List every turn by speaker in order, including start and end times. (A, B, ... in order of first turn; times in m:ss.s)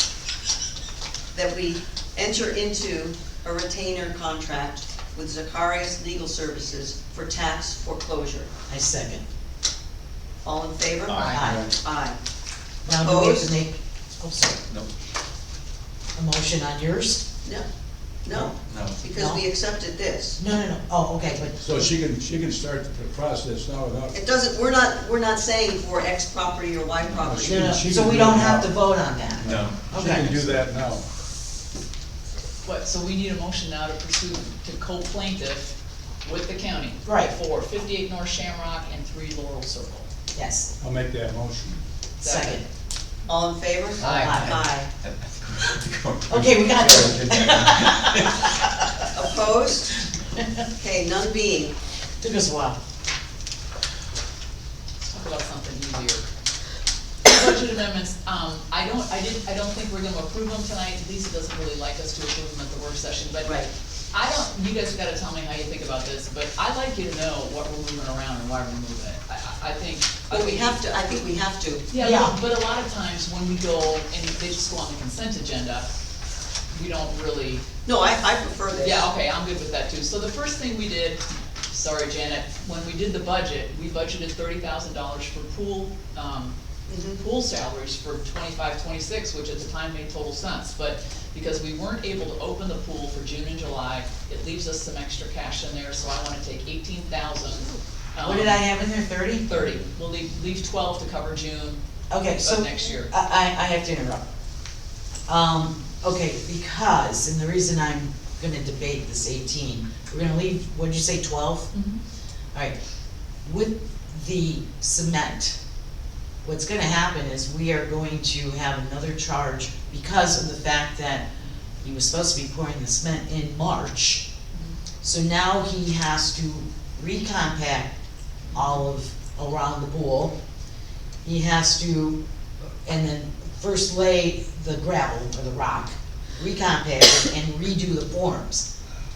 0:01.3-0:08.5 A
0:08.7-0:09.2 B
0:10.4-0:12.2 A
0:11.0-0:11.5 C
0:11.1-0:11.7 B
0:11.4-0:11.7 D
0:12.8-0:13.6 A
0:12.8-0:14.6 B
0:16.1-0:17.2 B
0:18.2-0:20.4 A
0:18.3-0:19.0 C
0:19.0-0:19.4 B
0:20.4-0:21.9 B
0:21.6-0:24.2 D
0:24.1-0:27.8 A
0:27.1-0:28.7 D
0:27.4-0:30.4 B
0:29.4-0:30.6 C
0:29.4-0:31.0 D
0:32.6-0:40.1 E
0:37.0-0:37.3 B
0:40.3-0:40.7 B
0:40.8-0:41.8 D
0:42.2-0:42.6 E
0:42.2-0:42.6 B
0:43.3-0:44.9 A
0:44.0-0:44.5 E
0:44.0-0:48.9 C
0:44.1-0:44.6 B
0:46.3-0:48.6 B
0:49.1-0:49.9 A
0:50.2-0:50.6 B
0:50.8-0:51.7 A
0:52.2-0:52.8 B
0:55.0-0:56.3 E
0:57.2-1:10.8 E
1:03.4-1:03.7 A
1:10.3-1:11.9 A
1:11.9-1:15.9 E
1:12.0-1:12.4 B
1:16.7-1:17.6 E
1:17.8-1:19.1 A
1:18.8-1:26.5 E
1:26.9-1:27.2 A
1:27.2-1:38.6 E
1:38.2-1:39.5 B
1:39.5-1:41.8 E
1:42.1-1:44.2 B
1:42.4-1:43.1 E
1:45.3-1:51.7 B
1:51.7-1:52.0 E
1:53.4-1:55.6 B
1:56.4-2:01.3 B
2:01.8-2:04.2 B
2:05.0-2:07.9 B
2:08.5-2:08.8 E
2:08.5-2:10.3 B
2:11.2-2:18.7 B